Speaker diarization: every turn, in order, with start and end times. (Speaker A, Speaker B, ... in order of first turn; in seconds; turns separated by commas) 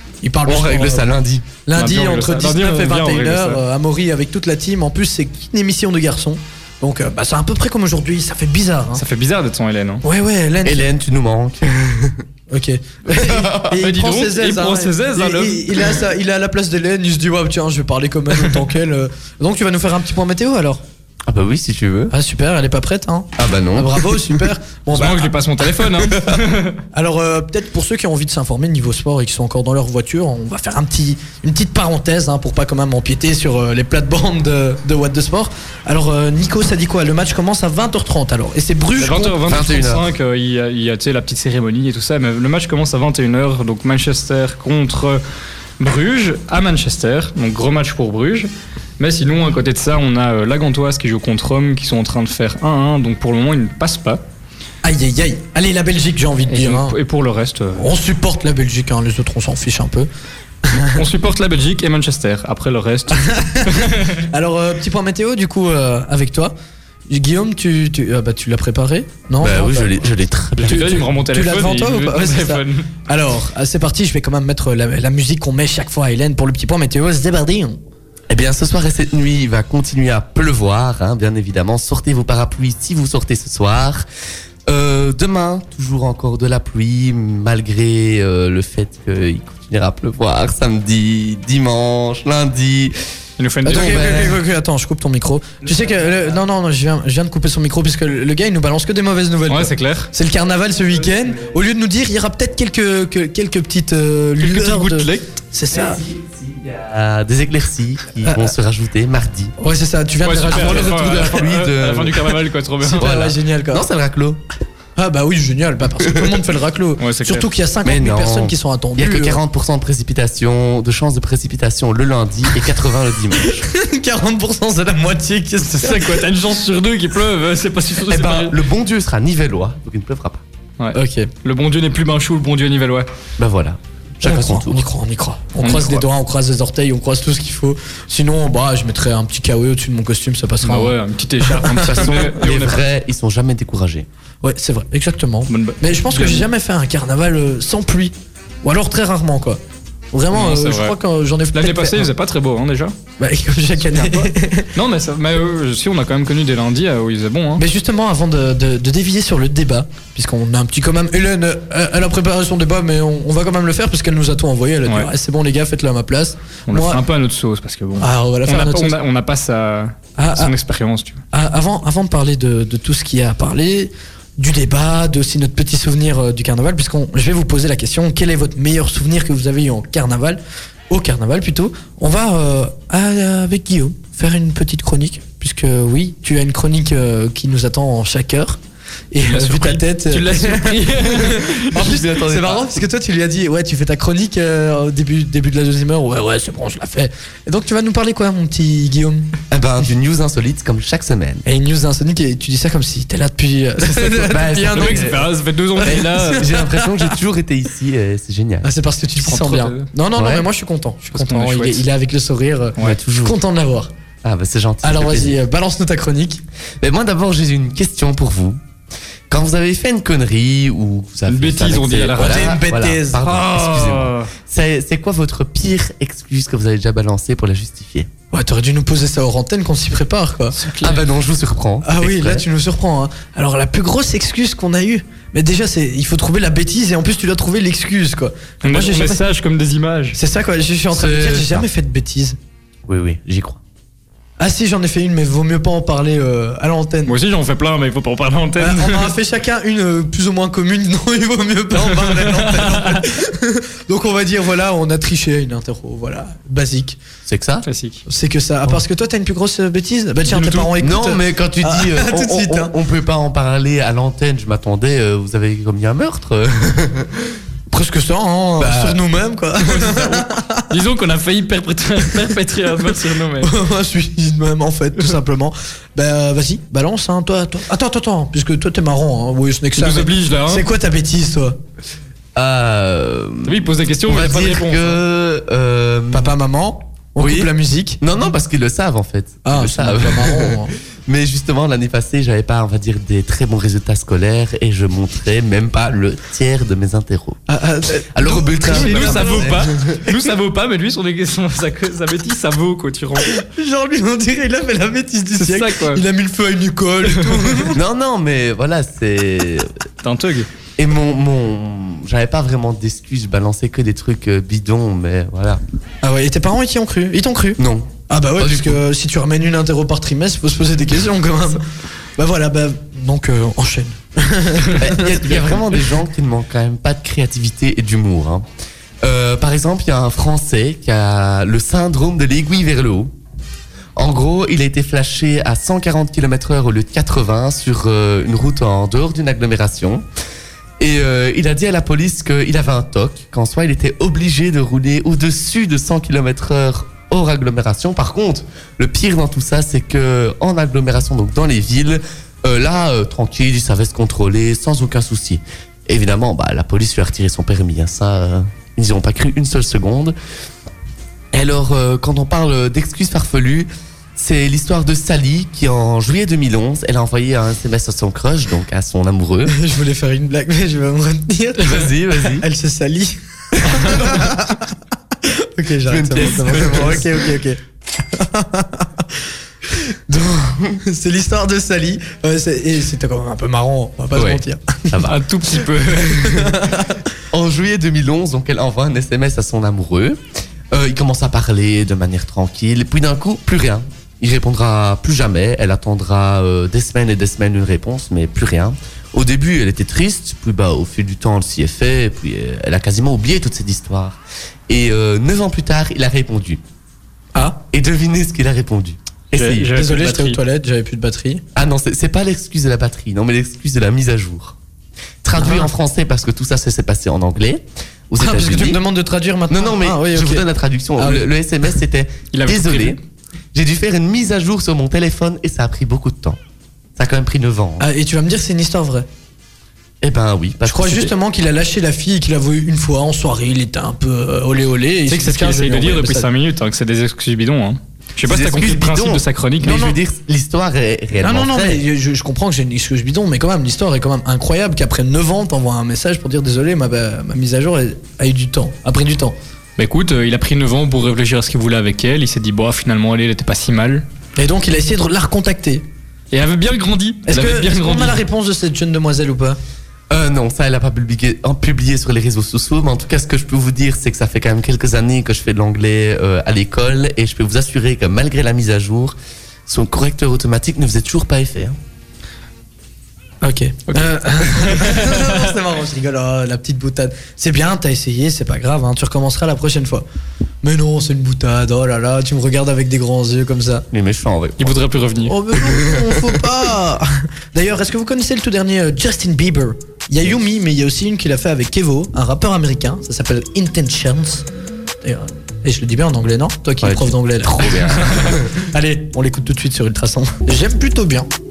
Speaker A: 0.2-1.1, Speaker B: 0.5-1.4, Speaker A: 1.6-9.0, Speaker C: 1.7-3.6, Speaker C: 8.9-10.0, Speaker A: 10.0-10.9, Speaker B: 10.6-12.2, Speaker A: 12.5-20.8, Speaker B: 13.1-13.7, Speaker C: 13.7-16.0, Speaker B: 21.3-22.1, Speaker A: 22.1-26.3, Speaker B: 23.4-24.5, Speaker C: 24.9-26.8, Speaker A: 26.9-39.5, Speaker C: 39.0-45.2, Speaker B: 39.4-40.1, Speaker C: 45.8-54.2, Speaker A: 54.8-57.0, Speaker C: 56.5-57.9, Speaker A: 57.7-60.1, Speaker A: 60.6-61.0, Speaker C: 60.9-64.3, Speaker A: 63.1-66.5, Speaker A: 67.1-77.8, Speaker B: 69.4-71.0, Speaker C: 70.6-72.9, Speaker B: 78.3-84.0, Speaker B: 84.7-93.0, Speaker C: 93.4-94.3, Speaker A: 93.6-106.0, Speaker B: 93.7-94.4, Speaker C: 95.9-96.2, Speaker C: 99.5-100.1, Speaker B: 101.0-101.5, Speaker C: 104.4-105.3, Speaker B: 105.7-109.5, Speaker A: 108.2-108.5, Speaker A: 109.6-111.4, Speaker C: 110.2-113.0, Speaker B: 110.5-112.4, Speaker A: 112.8-113.9, Speaker B: 112.9-114.4, Speaker A: 115.0-119.4, Speaker C: 117.0-117.5, Speaker B: 117.8-123.7, Speaker A: 123.4-126.3, Speaker C: 125.7-128.6, Speaker B: 128.0-130.4, Speaker C: 130.8-133.1, Speaker A: 130.9-131.3, Speaker B: 133.4-134.8, Speaker A: 134.2-142.2, Speaker C: 135.6-136.0, Speaker C: 140.6-142.8, Speaker B: 141.8-144.1, Speaker A: 144.4-149.6, Speaker C: 145.5-146.5, Speaker A: 150.1-152.1, Speaker C: 150.3-151.0, Speaker C: 151.5-152.9, Speaker A: 153.2-154.7, Speaker C: 153.8-157.6, Speaker A: 157.6-167.0, Speaker C: 166.7-171.2, Speaker A: 168.0-169.0, Speaker A: 170.2-170.5, Speaker A: 171.3-188.6, Speaker A: 189.1-199.3, Speaker C: 189.2-191.8, Speaker B: 191.3-192.7, Speaker B: 199.5-201.4, Speaker A: 201.4-205.2, Speaker B: 204.2-205.3, Speaker C: 204.4-206.6, Speaker A: 205.8-207.0, Speaker B: 205.8-208.7, Speaker A: 208.6-213.9, Speaker C: 209.2-209.9, Speaker B: 210.2-210.4, Speaker C: 211.1-211.8, Speaker B: 212.8-213.3, Speaker B: 214.2-215.4, Speaker A: 214.8-216.4, Speaker B: 216.8-218.6, Speaker B: 219.3-228.1, Speaker C: 221.3-222.5, Speaker A: 222.2-223.2, Speaker C: 223.2-224.3, Speaker A: 228.3-230.6, Speaker C: 230.6-231.0, Speaker B: 230.8-232.4, Speaker A: 231.8-239.2, Speaker C: 238.6-240.2, Speaker A: 240.1-242.4, Speaker B: 240.9-241.7, Speaker B: 242.9-243.6, Speaker A: 244.4-247.1, Speaker C: 247.1-249.1, Speaker A: 248.6-257.0, Speaker C: 251.8-253.1, Speaker B: 257.3-257.6, Speaker C: 257.6-258.0, Speaker A: 258.1-262.7, Speaker C: 260.3-260.7, Speaker B: 260.8-267.3, Speaker A: 267.7-270.7, Speaker B: 268.6-269.0, Speaker C: 269.6-273.5, Speaker A: 273.4-281.6, Speaker C: 279.8-280.7, Speaker B: 282.3-286.3, Speaker C: 283.4-285.0, Speaker A: 286.1-288.0, Speaker B: 287.2-297.4, Speaker A: 289.4-290.7, Speaker A: 297.5-300.3, Speaker B: 298.1-300.0, Speaker C: 298.6-303.4, Speaker A: 303.2-307.8, Speaker C: 305.3-306.0, Speaker B: 307.7-309.7, Speaker C: 310.0-310.5, Speaker B: 310.8-315.6, Speaker A: 316.0-321.6, Speaker B: 317.6-318.8, Speaker A: 322.2-325.6, Speaker B: 324.7-328.4, Speaker B: 329.0-333.1, Speaker B: 333.9-340.0, Speaker B: 340.8-360.1, Speaker B: 361.3-369.5, Speaker A: 369.5-374.7, Speaker B: 371.6-372.4, Speaker B: 373.6-374.3, Speaker A: 375.2-379.0, Speaker B: 375.9-377.2, Speaker B: 380.1-380.8, Speaker A: 380.8-385.0, Speaker B: 384.1-385.2, Speaker C: 385.0-386.5, Speaker A: 386.1-387.0, Speaker B: 387.3-390.2, Speaker B: 390.7-406.6, Speaker A: 407.3-407.6, Speaker B: 407.7-409.7, Speaker C: 409.3-410.4, Speaker A: 409.7-411.4, Speaker B: 411.5-414.5, Speaker B: 415.2-418.8, Speaker A: 415.4-415.7, Speaker A: 418.2-420.4, Speaker B: 419.5-423.0, Speaker A: 421.0-421.3, Speaker C: 422.3-423.0, Speaker B: 423.5-426.4, Speaker B: 427.0-427.8, Speaker A: 427.8-429.1, Speaker B: 430.0-431.1, Speaker A: 430.6-436.3, Speaker C: 435.1-439.8, Speaker B: 438.2-441.8, Speaker A: 439.6-440.0, Speaker A: 441.2-449.4, Speaker C: 449.8-454.1, Speaker A: 454.4-455.9, Speaker C: 456.3-458.2, Speaker A: 457.3-459.6, Speaker B: 460.1-469.1, Speaker B: 469.7-471.8, Speaker A: 473.4-480.0, Speaker C: 473.9-475.4, Speaker A: 480.6-483.8, Speaker B: 483.9-484.8, Speaker C: 484.6-485.3, Speaker A: 485.2-494.4, Speaker B: 485.5-486.4, Speaker A: 495.0-501.3, Speaker B: 496.8-498.6